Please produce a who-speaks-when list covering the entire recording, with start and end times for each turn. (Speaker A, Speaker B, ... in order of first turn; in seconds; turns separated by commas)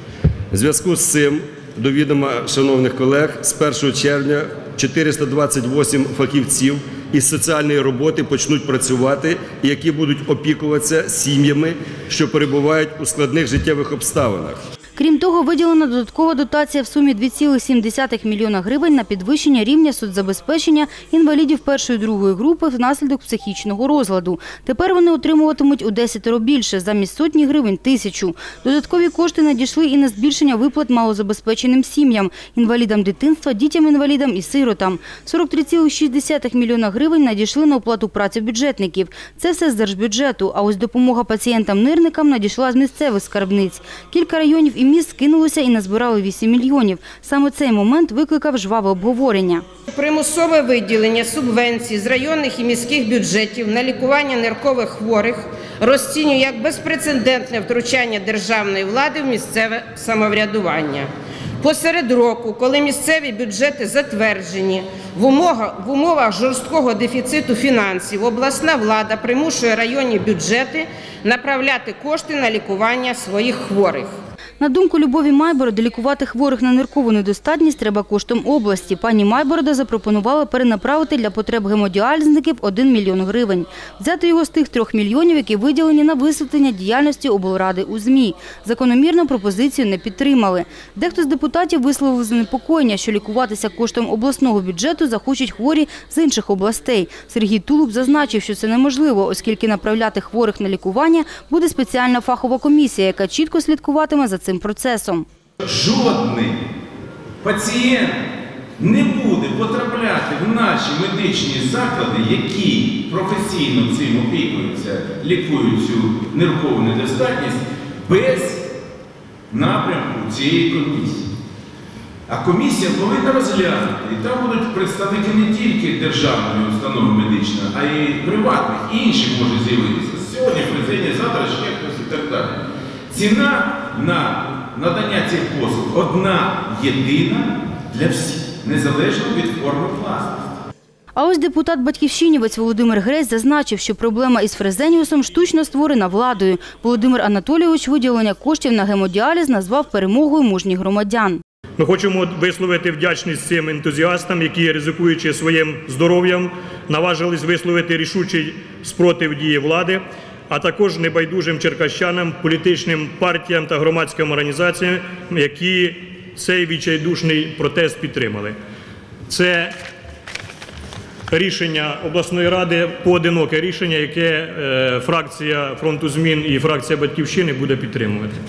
Speaker A: 0.5-14.6, Speaker B: 15.0-49.6, Speaker C: 49.9-74.1, Speaker B: 74.6-105.3, Speaker D: 105.6-106.6, Speaker D: 107.4-108.2, Speaker D: 108.8-118.6, Speaker D: 119.5-121.3, Speaker D: 122.3-140.5, Speaker B: 141.2-151.4, Speaker E: 151.8-168.6, Speaker E: 169.3-169.7, Speaker E: 171.3-178.4